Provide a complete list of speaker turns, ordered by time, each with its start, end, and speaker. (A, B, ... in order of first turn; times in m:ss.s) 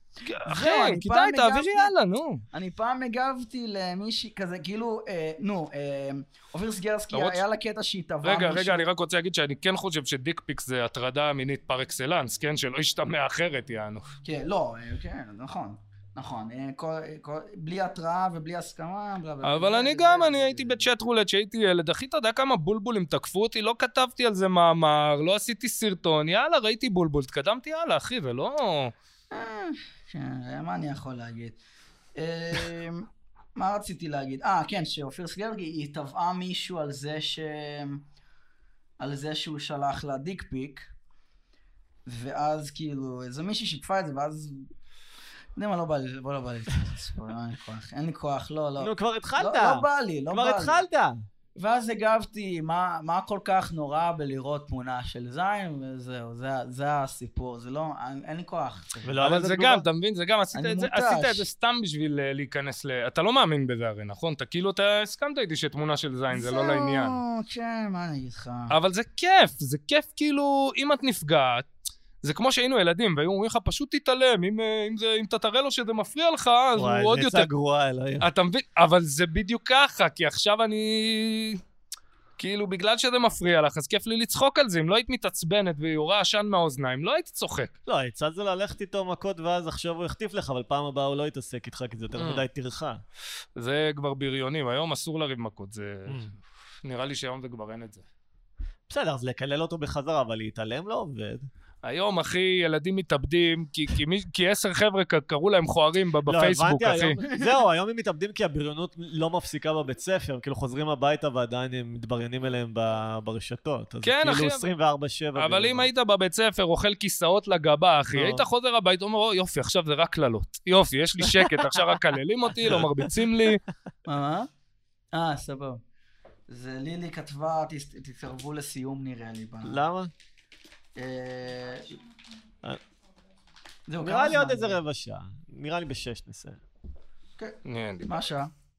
0:00.2-0:02.4 A
0:00.4-0:01.9 B
0:02.5-0:08.9 B
0:07.1-0:07.4 A
0:08.2-0:14.1 A
0:14.2-0:20.9 B
0:19.4-0:28.9 A
0:29.3-0:31.6 B
0:32.1-0:38.0 B
0:39.0-0:40.9 B
0:42.1-0:44.6 B
0:45.6-0:50.8 B
0:48.8-0:51.2 C
0:51.6-0:59.2 B
0:59.0-0:59.9 C
0:59.2-1:07.2 A
1:00.5-1:01.4 B
1:06.3-1:08.7 B
1:08.7-1:11.7 A
1:12.2-1:17.5 A
1:16.8-1:18.3 C
1:18.2-1:21.6 A
1:22.4-1:27.7 A
1:27.9-1:33.0 C
1:32.2-1:32.4 A
1:33.6-1:36.3 A
1:36.1-1:36.3 C
1:36.8-1:38.0 A
1:38.9-1:41.5 C
1:41.8-1:47.2 A
1:46.3-1:55.9 C
1:47.2-1:47.5 B
1:54.0-1:54.7 A
1:55.4-2:03.6 A
1:58.1-1:58.4 C
2:01.2-2:02.0 C
2:02.5-2:03.5 C
2:04.1-2:04.5 B
2:05.1-2:05.8 B
2:06.5-2:09.8 B
2:09.6-2:10.1 C
2:11.0-2:12.0 B
2:13.9-2:14.8 B
2:14.0-2:16.6 C
2:17.4-2:18.5 B
2:17.6-2:18.3 A